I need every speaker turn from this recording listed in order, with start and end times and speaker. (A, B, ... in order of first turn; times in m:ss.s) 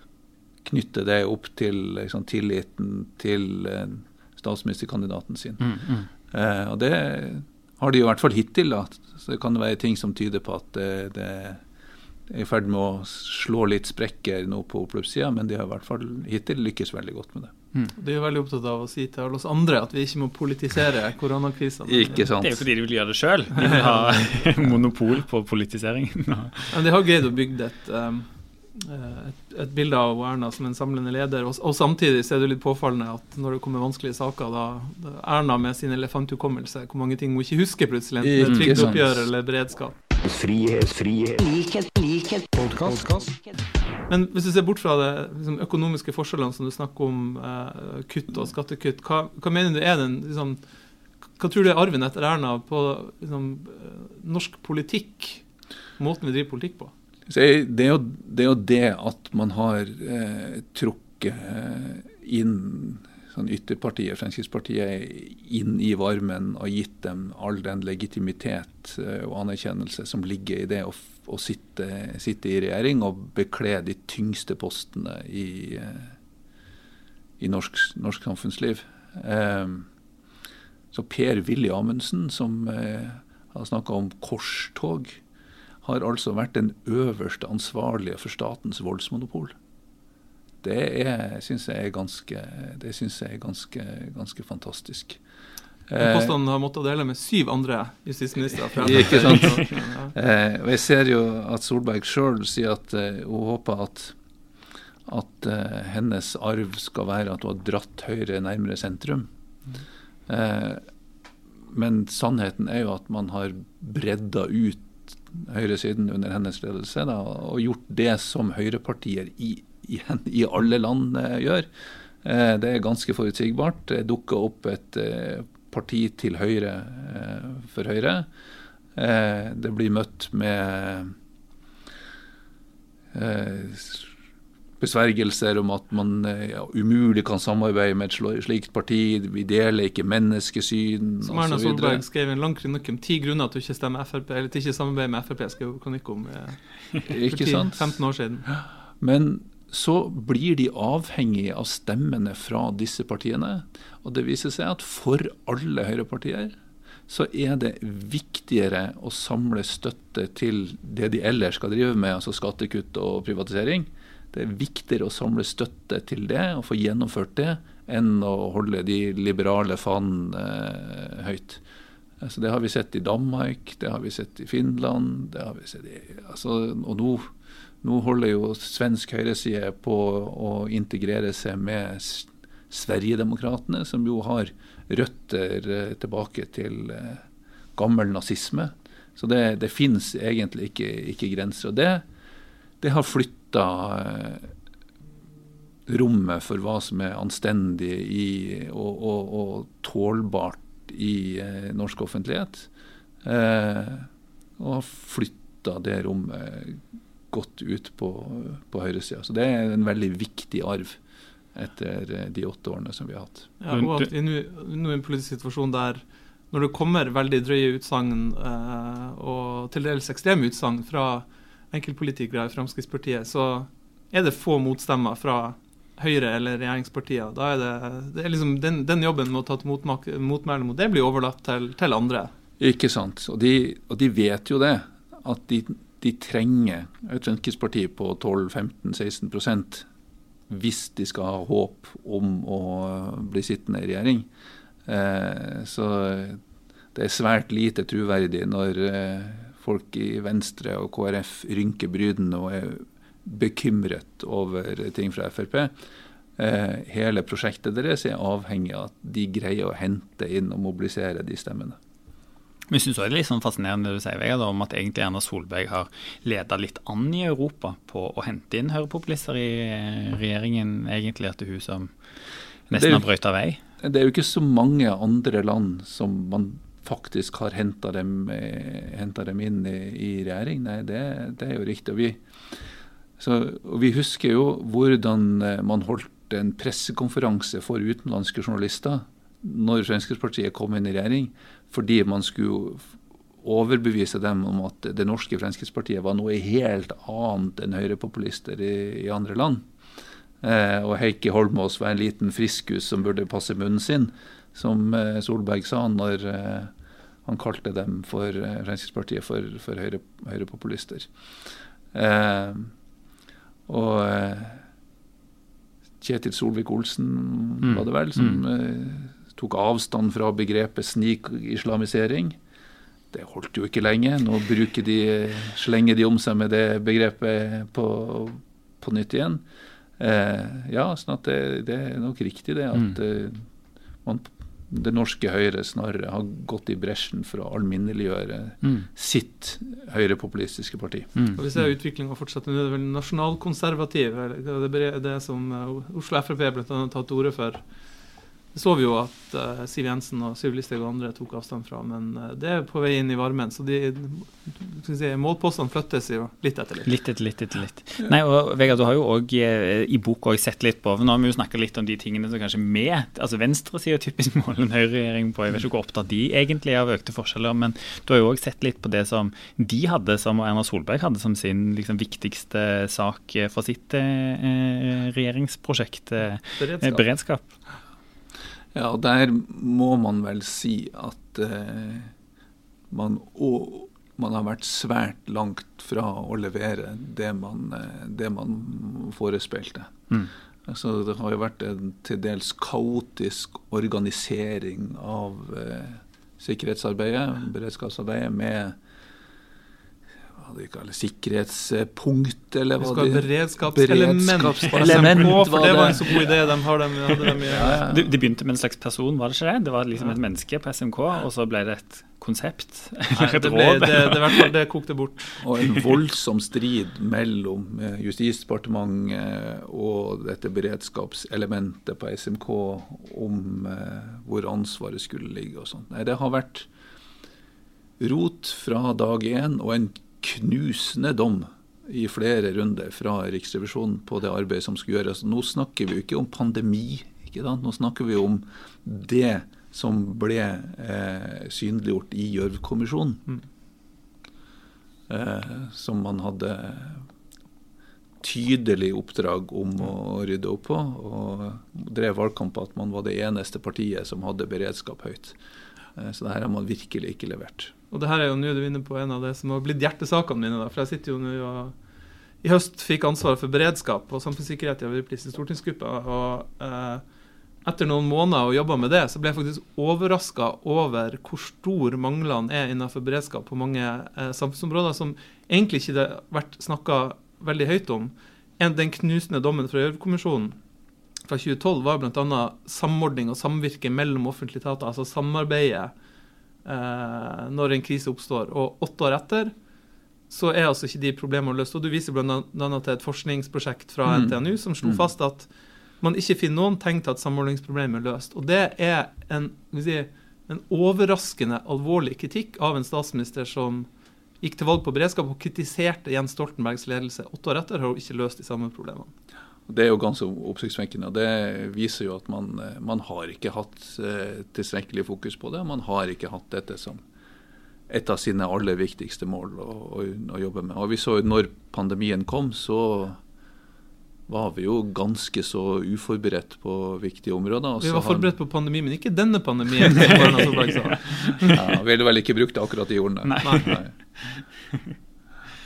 0:00.6-0:05.7 A
0:05.6-0:06.1 B
0:06.3-0:11.6 A
0:12.3-0:17.5 A
0:18.0-0:22.3 C
0:21.8-0:22.7 A
0:22.2-0:26.8 B
0:23.6-0:24.6 C
0:26.7-0:40.0 C
0:38.2-0:39.3 A
0:38.4-0:38.9 B
0:40.2-0:43.5 D
0:44.1-0:50.6 C
0:51.4-0:55.4 C
0:56.0-0:56.9 C
0:57.3-1:16.2 A
1:17.4-1:19.9 A
1:20.9-1:25.2 A
1:25.8-1:29.6 A
1:30.6-1:35.2 A
1:35.9-1:36.3 A
1:36.0-1:40.1 C
1:38.8-1:44.2 A
1:45.1-1:49.3 A
1:50.3-1:50.8 A
1:51.7-2:01.7 A
2:02.2-2:08.3 A
2:09.0-2:11.1 A
2:13.1-2:14.1 A
2:14.8-2:22.0 A
2:21.2-2:28.5 C
2:27.1-2:27.9 A
2:29.0-2:36.6 A
2:37.1-2:51.6 A
2:52.2-2:57.3 A
2:57.8-3:07.2 A
3:07.8-3:12.0 A
3:12.8-3:14.5 A
3:15.9-3:22.7 A
3:23.2-3:31.0 A
3:31.5-3:33.5 A
3:33.6-3:52.3 C
3:33.7-3:34.1 B
3:52.6-3:59.9 A
4:00.5-4:04.3 A
4:04.9-4:06.4 A
4:06.9-4:15.7 A
4:16.4-4:21.8 A
4:22.7-4:31.9 B
4:32.7-4:33.6 B
4:32.7-4:33.0 A
4:33.8-4:42.2 A
4:43.2-4:52.9 A
4:53.4-4:59.7 A
5:00.4-5:06.7 A
5:07.2-5:11.1 A
5:11.9-5:12.7 A
5:13.7-5:14.6 A
5:16.0-5:22.4 A
5:17.6-5:18.4 B
5:23.1-5:29.4 A
5:30.0-5:33.4 A
5:34.0-5:41.2 A
5:41.2-5:41.4 B
5:41.4-5:47.7 C
5:48.5-5:56.9 C
5:56.9-6:17.5 B
6:16.6-6:17.1 C
6:18.7-6:22.1 A
6:22.9-6:30.0 A
6:30.7-6:38.8 A
6:40.4-6:46.4 A
6:42.8-6:47.8 C
6:44.8-6:45.1 B
6:47.4-6:48.1 A
6:47.9-6:54.5 B
6:53.1-6:55.4 C
6:55.4-7:06.7 A
7:08.0-7:23.2 A
7:25.1-7:27.1 A
7:28.2-7:35.4 A
7:36.0-7:37.7 A
7:37.9-7:41.8 C
7:42.4-7:47.0 C
7:47.6-8:00.6 C
8:01.3-8:05.9 C
8:06.6-8:09.5 C
8:10.3-8:15.5 C
8:14.0-8:15.1 A
8:16.0-8:23.9 C
8:24.4-8:29.1 C
8:29.7-8:37.0 A
8:37.9-8:43.2 A
8:44.3-8:48.3 A
8:47.8-8:51.6 C
8:50.0-8:50.3 A
8:51.1-8:51.6 B
8:51.5-8:53.9 A
8:53.3-8:54.9 B
8:53.4-8:53.8 C